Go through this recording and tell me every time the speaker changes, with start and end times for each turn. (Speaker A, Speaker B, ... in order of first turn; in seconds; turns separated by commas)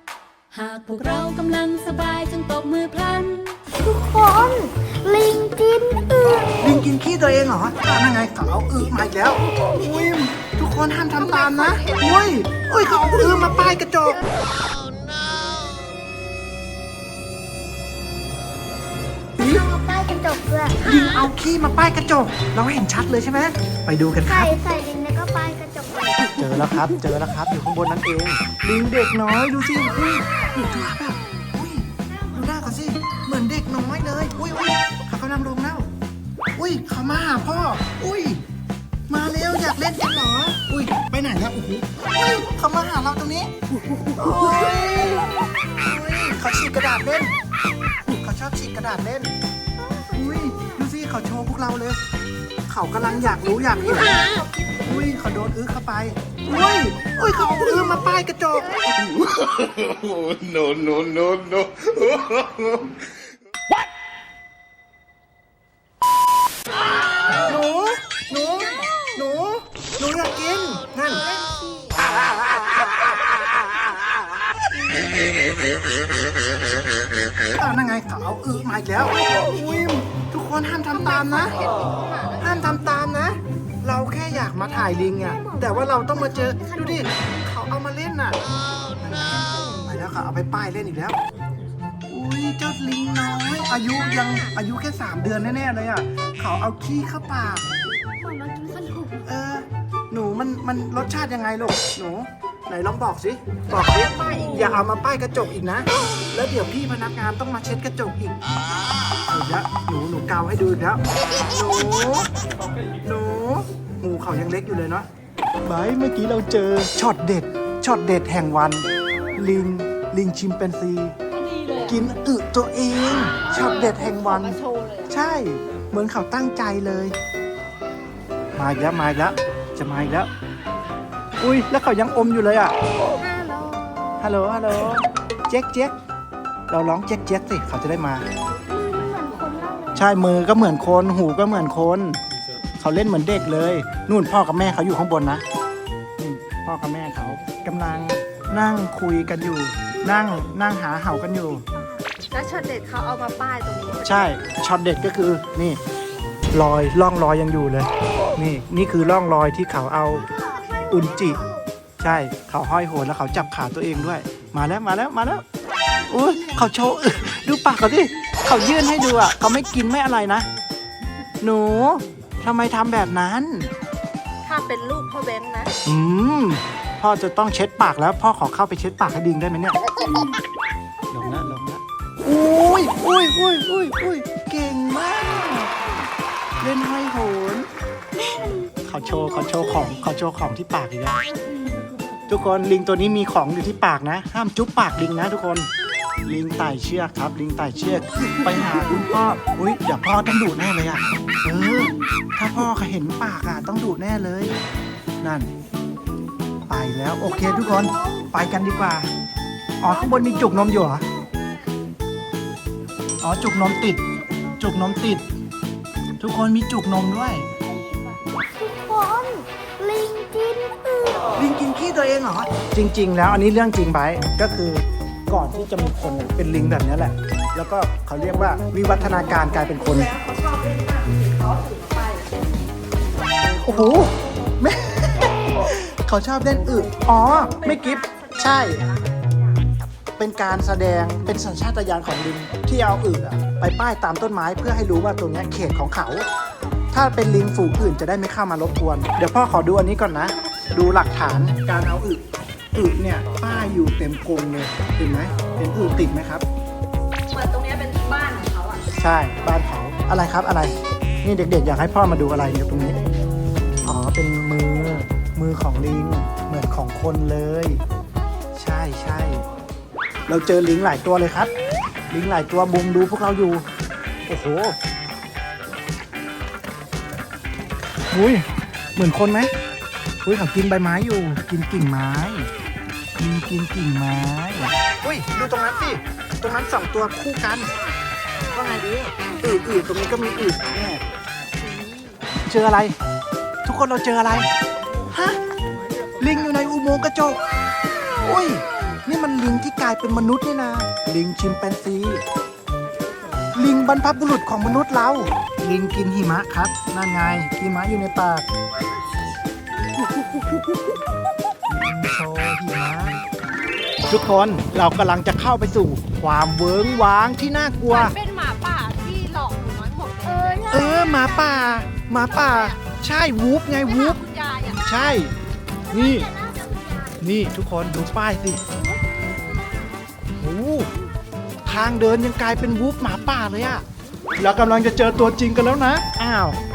Speaker A: 0.5-3.6, Speaker B: 3.8-6.7, Speaker C: 6.6-14.2, Speaker D: 11.2-12.3, Speaker C: 19.4-19.6, Speaker B: 19.4-20.9, Speaker C: 20.8-24.6, Speaker B: 24.2-26.2, Speaker C: 26.4-35.9, Speaker C: 36.5-38.4, Speaker C: 39.1-43.5, Speaker C: 44.1-47.3, Speaker C: 48.0-49.3, Speaker B: 49.8-50.7, Speaker C: 50.1-52.0, Speaker C: 52.7-54.2, Speaker D: 54.0-54.4, Speaker C: 54.8-59.3, Speaker E: 59.7-61.8, Speaker C: 67.4-71.3, Speaker B: 71.5-71.9, Speaker C: 72.2-72.9, Speaker C: 77.4-81.6, Speaker D: 80.9-82.7, Speaker C: 82.4-88.4, Speaker B: 85.4-86.8, Speaker C: 89.0-91.2, Speaker C: 92.1-97.6, Speaker D: 93.9-94.5, Speaker B: 98.2-99.2, Speaker C: 99.2-108.4, Speaker D: 103.7-104.8, Speaker C: 109.3-112.3, Speaker C: 113.0-115.1, Speaker C: 115.6-121.1, Speaker D: 121.3-122.0, Speaker C: 121.9-127.2, Speaker D: 123.3-125.1, Speaker C: 128.5-130.3, Speaker C: 131.4-132.7, Speaker B: 133.1-134.2, Speaker C: 134.2-135.9, Speaker C: 136.7-138.2, Speaker B: 138.7-140.1, Speaker C: 139.9-142.2, Speaker C: 142.8-145.4, Speaker C: 146.2-151.6, Speaker D: 152.3-154.4, Speaker C: 154.0-155.8, Speaker C: 156.5-160.3, Speaker B: 160.3-161.6, Speaker C: 160.9-161.4, Speaker C: 162.0-165.4, Speaker C: 166.1-170.5, Speaker C: 171.4-173.7, Speaker D: 174.4-175.7, Speaker C: 175.8-179.8, Speaker C: 181.1-185.8, Speaker C: 186.6-187.7, Speaker C: 188.8-191.2, Speaker C: 192.3-195.7, Speaker C: 196.2-204.6, Speaker C: 205.2-205.5, Speaker C: 206.7-209.1, Speaker B: 207.4-208.3, Speaker C: 209.8-211.0, Speaker B: 209.8-211.2, Speaker C: 213.2-214.0, Speaker C: 214.6-215.2, Speaker C: 216.2-217.5, Speaker B: 217.7-221.3, Speaker C: 221.3-230.1, Speaker D: 229.8-232.3, Speaker C: 233.5-238.8, Speaker D: 237.3-239.1, Speaker C: 240.2-246.2, Speaker C: 246.9-252.2, Speaker C: 252.7-256.4, Speaker D: 257.3-258.8, Speaker C: 259.0-263.0, Speaker C: 263.8-267.8, Speaker C: 268.5-269.4, Speaker C: 270.3-271.5, Speaker C: 272.1-273.6, Speaker C: 274.3-274.8, Speaker C: 278.1-279.5, Speaker C: 280.2-282.5, Speaker C: 283.2-287.7, Speaker C: 288.5-291.0, Speaker C: 292.4-293.0, Speaker C: 293.6-294.5, Speaker C: 295.1-295.4, Speaker C: 296.2-297.4, Speaker C: 298.2-302.2, Speaker C: 303.5-308.4, Speaker C: 311.7-313.2, Speaker C: 314.1-318.1, Speaker D: 317.9-320.8, Speaker B: 320.2-321.3, Speaker C: 320.7-324.2, Speaker D: 322.3-322.8, Speaker D: 323.8-324.9, Speaker C: 324.8-325.3, Speaker C: 325.9-326.3, Speaker B: 325.9-327.3, Speaker C: 327.2-328.6, Speaker B: 329.6-329.8, Speaker C: 330.4-330.9, Speaker C: 331.6-333.8, Speaker C: 334.4-336.6